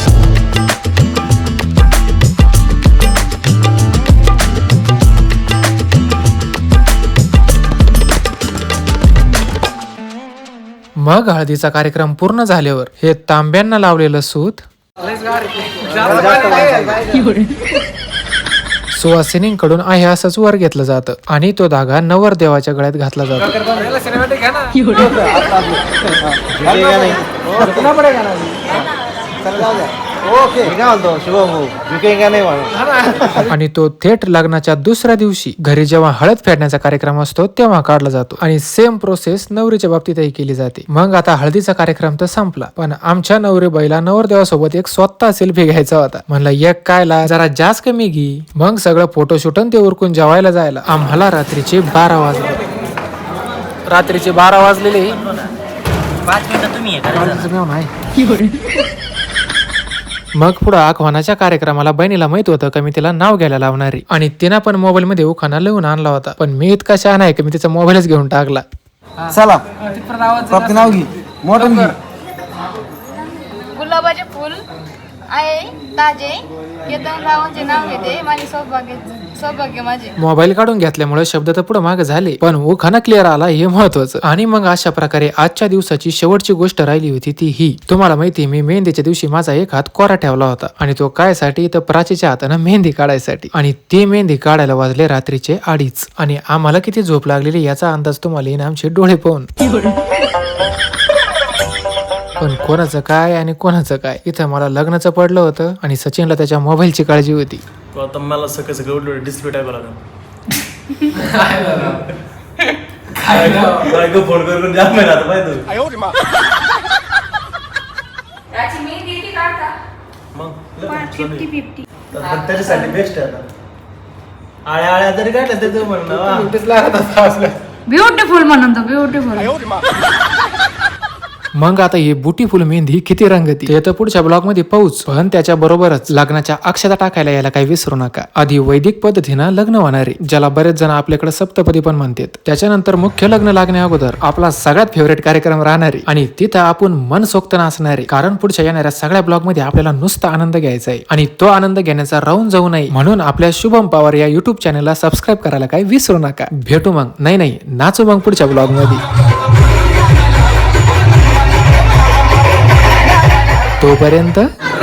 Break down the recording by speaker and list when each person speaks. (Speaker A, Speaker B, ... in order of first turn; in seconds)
Speaker A: 11.0-14.7, 18.9-23.9, 33.4-52.6, 53.9-55.4, 56.9-57.9, 60.4-68.6, 80.2-99.5, 102.4-107.6, 111.2-111.9, 126.5-127.5, 131.6-159.0, 163.8-164.5
Speaker B: 15.9-17.3, 24.8-28.7, 29.4-29.9, 30.5-33.0, 69.3-69.6, 70.3-71.9
Speaker C: 56.3-57.0, 107.9-110.0, 111.7-112.0, 113.2-115.9, 120.3-123.5, 124.7-126.5
Speaker D: 73.7-74.7, 75.3-80.1, 127.9-129.7